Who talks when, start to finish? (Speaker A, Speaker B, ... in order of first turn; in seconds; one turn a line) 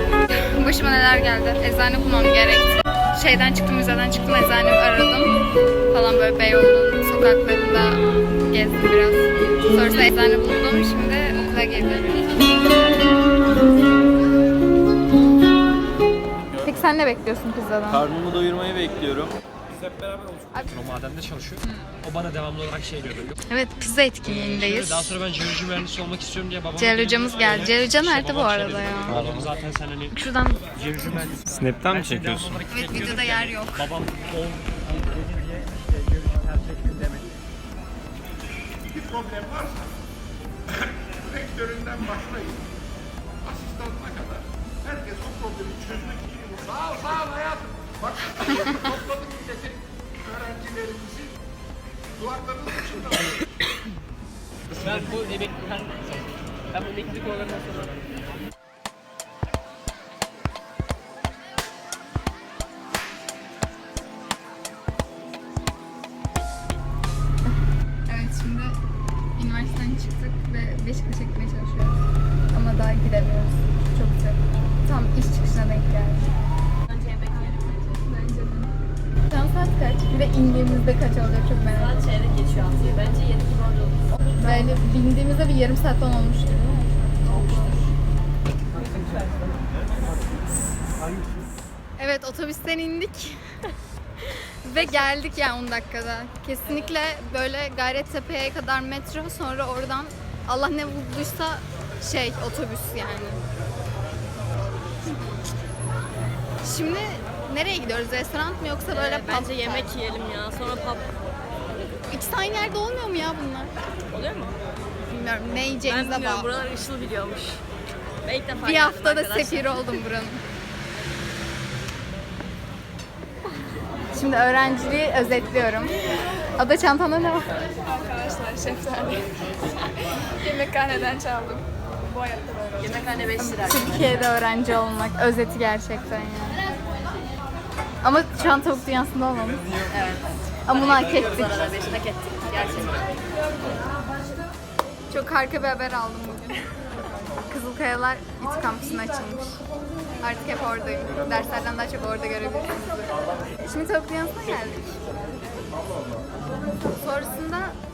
Speaker A: 0.3-5.4
Speaker A: 5.9-12.3
Speaker A: 16.6-18.1
Speaker B: 18.0-19.3
Speaker C: 20.7-23.3
Speaker A: 23.5-25.2
Speaker C: 24.3-30.1
Speaker A: 26.8-29.3
Speaker A: 30.1-30.6
Speaker C: 30.8-37.2
Speaker B: 31.6-32.6
Speaker A: 32.7-33.9
Speaker D: 38.9-39.9
Speaker D: 41.0-42.6
Speaker D: 43.4-51.3
Speaker D: 52.1-53.4
Speaker C: 54.8-56.0
Speaker C: 56.8-57.5
Speaker A: 68.1-68.8
Speaker A: 69.4-72.0
Speaker A: 72.5-76.3
Speaker E: 76.9-78.0
Speaker A: 78.1-78.7
Speaker A: 79.3-82.0
Speaker E: 81.8-84.0
Speaker A: 84.3-87.8
Speaker A: 92.0-93.4
Speaker A: 94.3-103.4
Speaker A: 106.6-109.9
Speaker E: 108.9-111.1
Speaker A: 112.1-113.7
Speaker E: 114.1-114.6
Speaker A: 115.1-116.5
Speaker E: 115.8-117.6
Speaker E: 118.2-120.0
Speaker A: 118.6-120.4
Speaker A: 124.1-125.9
Speaker A: 126.5-127.5
Speaker F: 128.0-129.2
Speaker F: 130.4-131.6
Speaker A: 130.6-131.1
Speaker F: 132.2-132.7
Speaker E: 132.8-134.1
Speaker A: 133.4-136.6
Speaker A: 138.0-139.7
Speaker E: 139.9-143.1
Speaker A: 140.7-141.5
Speaker A: 145.1-146.6
Speaker A: 147.5-149.6
Speaker A: 150.2-155.0
Speaker A: 156.9-157.8